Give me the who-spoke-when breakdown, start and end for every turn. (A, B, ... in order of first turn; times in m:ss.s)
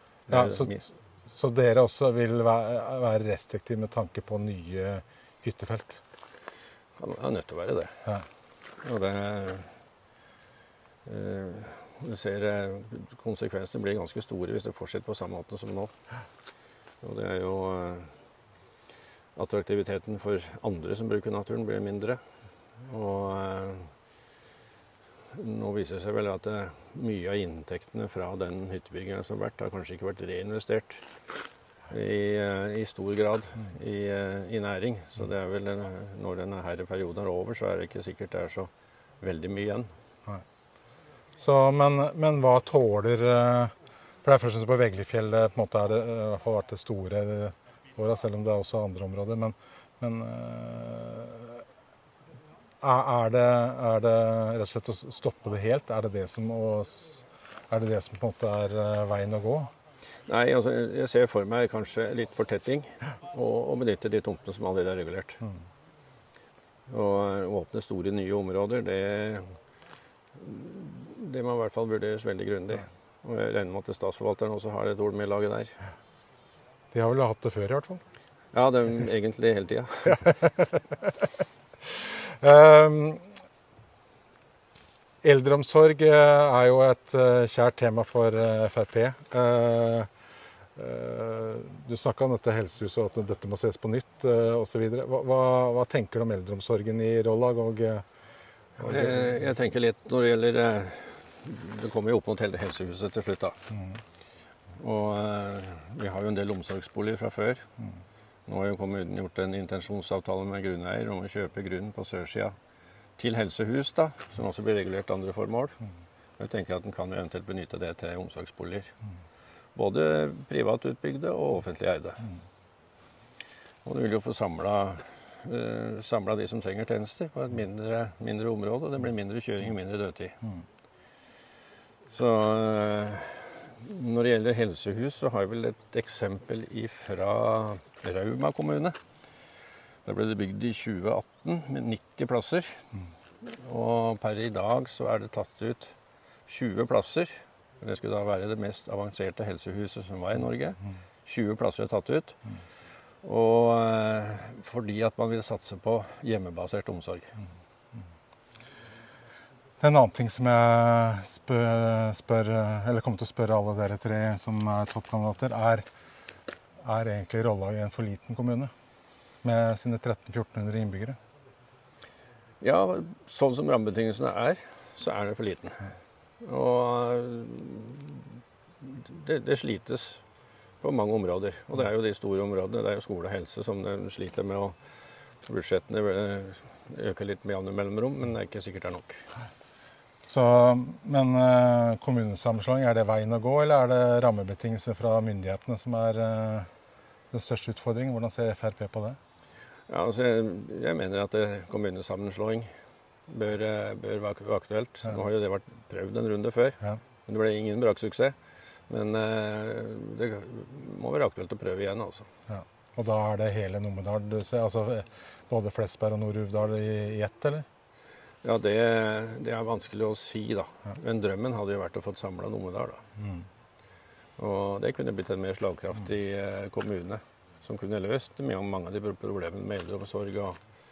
0:00.3-0:00.9 A
0:00.3-0:06.0 B
0:07.0-0:07.9 A
0:08.8-0:09.7 A
0:11.0-0:15.9 A
0:17.0-0:18.1 A
0:19.4-0:22.2 A
0:22.8-0:23.9 A
0:25.3-0:31.0 A
0:31.9-0:38.7 A
0:39.2-0:39.9 A
0:41.4-0:43.7 B
0:44.2-0:51.6 B
0:52.8-0:59.7 B
1:00.2-1:05.4 A
1:06.9-1:09.5 A
1:10.4-1:15.8 A
1:16.9-1:18.0 B
1:18.5-1:20.3 A
1:20.2-1:20.6 B
1:21.9-1:23.3 B
1:25.2-1:30.1 B
1:30.8-1:38.0 B
1:38.8-1:39.1 B
1:38.8-1:43.6 A
1:44.8-1:47.7 A
1:48.5-1:52.6 A
1:53.2-1:55.8 A
1:56.4-1:58.9 A
1:59.8-2:02.3 A
2:03.8-2:10.4 A
2:12.1-2:19.0 A
2:20.0-2:22.9 A
2:23.4-2:25.9 A
2:26.5-2:32.4 A
2:33.2-2:37.3 A
2:39.8-2:45.8 B
2:46.8-2:48.7 B
2:49.4-2:51.2 B
2:52.6-2:58.3 A
2:58.8-3:00.2 A
3:00.8-3:04.8 A
3:05.5-3:09.2 A
3:10.3-3:16.7 B
3:17.3-3:19.2 B
3:19.9-3:22.7 A
3:23.3-3:28.4 A
3:28.9-3:32.3 A
3:32.5-3:37.6 B
3:38.4-3:43.0 A
3:43.2-3:43.5 B
3:44.4-3:50.6 A